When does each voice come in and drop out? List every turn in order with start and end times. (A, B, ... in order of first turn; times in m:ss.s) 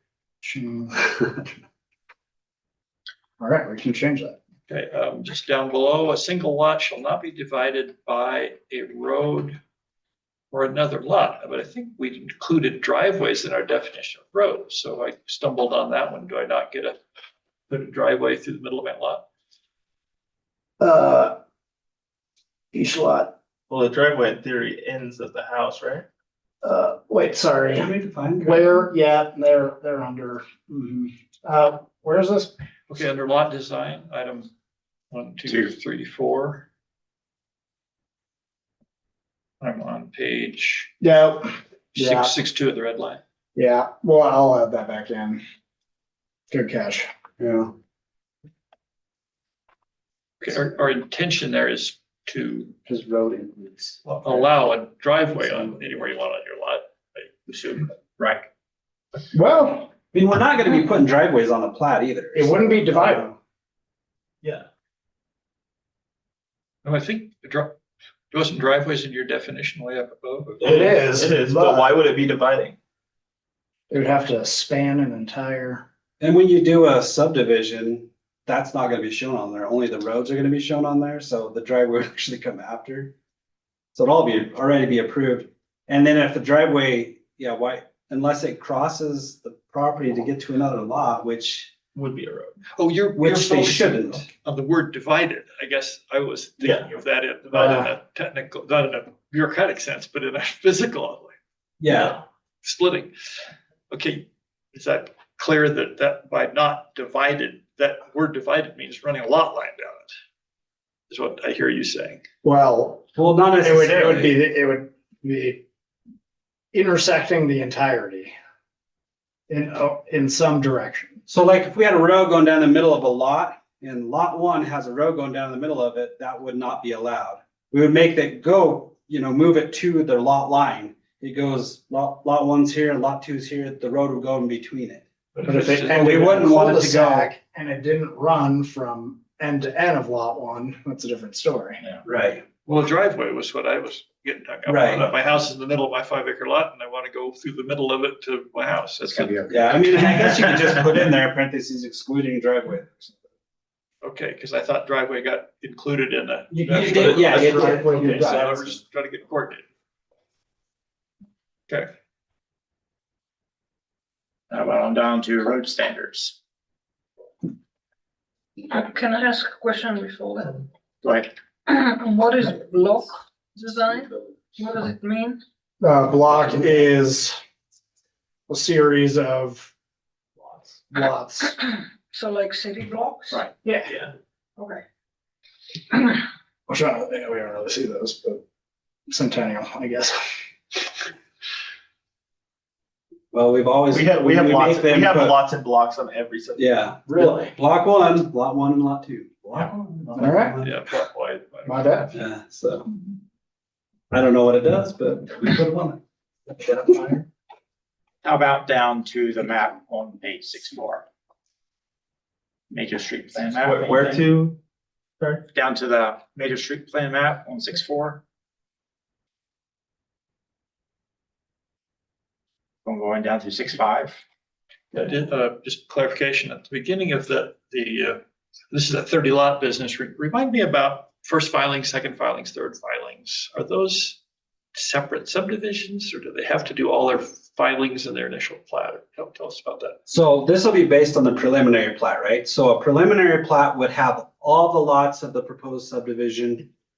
0:00.4-0:01.0 A
0:03.4-0:04.4 A
0:04.7-0:09.6 B
0:10.5-0:17.0 B
0:17.7-0:19.2 B
0:20.8-0:21.4 A
0:22.7-0:23.3 A
0:23.7-0:26.1 C
0:26.6-0:32.5 A
0:27.7-0:28.9 D
0:32.9-0:34.5 B
0:35.1-0:36.7 B
0:35.5-0:35.7 E
0:39.6-0:40.9 B
0:41.0-0:42.3 A
0:41.9-0:43.2 B
0:43.6-0:45.4 A
0:46.5-0:47.1 A
0:47.4-0:47.7 D
0:50.4-0:52.8 B
0:52.9-0:54.5 A
0:54.0-0:57.9 B
0:59.3-0:59.9 A
1:00.1-1:03.4 D
1:02.3-1:03.3 A
1:06.8-1:07.7 B
1:08.3-1:10.7 B
1:10.6-1:12.8 C
1:10.6-1:12.0 A
1:13.9-1:15.8 A
1:16.2-1:23.1 D
1:23.9-1:31.7 D
1:32.0-1:32.6 C
1:32.8-1:41.3 B
1:33.2-1:34.3 D
1:36.6-1:36.9 C
1:37.5-1:37.9 A
1:41.8-1:42.2 D
1:42.6-1:43.1 B
1:43.9-1:50.1 B
1:51.1-1:52.2 B
1:52.4-1:53.0 A
1:53.2-1:54.4 D
1:53.6-1:55.6 A
1:56.7-1:58.3 A
1:59.5-2:01.2 A
2:01.3-2:17.3 D
2:15.4-2:16.5 B
2:15.4-2:21.8 A
2:22.0-2:22.4 D
2:22.7-2:30.0 B
2:24.7-2:25.1 D
2:29.1-2:29.8 A
2:29.5-2:33.2 D
2:34.0-2:39.6 B
2:36.5-2:38.8 D
2:37.2-2:38.3 A
2:44.5-2:46.4 E
2:48.6-2:50.6 F
2:51.0-2:51.3 E
2:51.7-2:55.4 F
2:55.8-2:57.4 A
2:58.5-2:59.7 A
3:00.9-3:01.6 A
3:02.1-3:03.5 F
3:03.6-3:03.9 A
3:03.9-3:04.1 C
3:06.7-3:08.4 A
3:09.1-3:10.2 A
3:13.3-3:15.4 D
3:13.9-3:17.3 C
3:16.6-3:20.9 D
3:19.6-3:20.1 E
3:20.2-3:20.6 A
3:20.6-3:22.2 B
3:21.7-3:22.1 A
3:22.1-3:22.9 D
3:24.1-3:26.0 D
3:26.6-3:27.0 D
3:26.8-3:27.2 A
3:28.2-3:31.0 E
3:32.7-3:34.3 E
3:33.6-3:34.6 C
3:35.5-3:38.2 E
3:42.8-3:44.2 E
3:44.9-3:54.2 B
3:54.7-4:00.0 B
4:00.1-4:06.7 D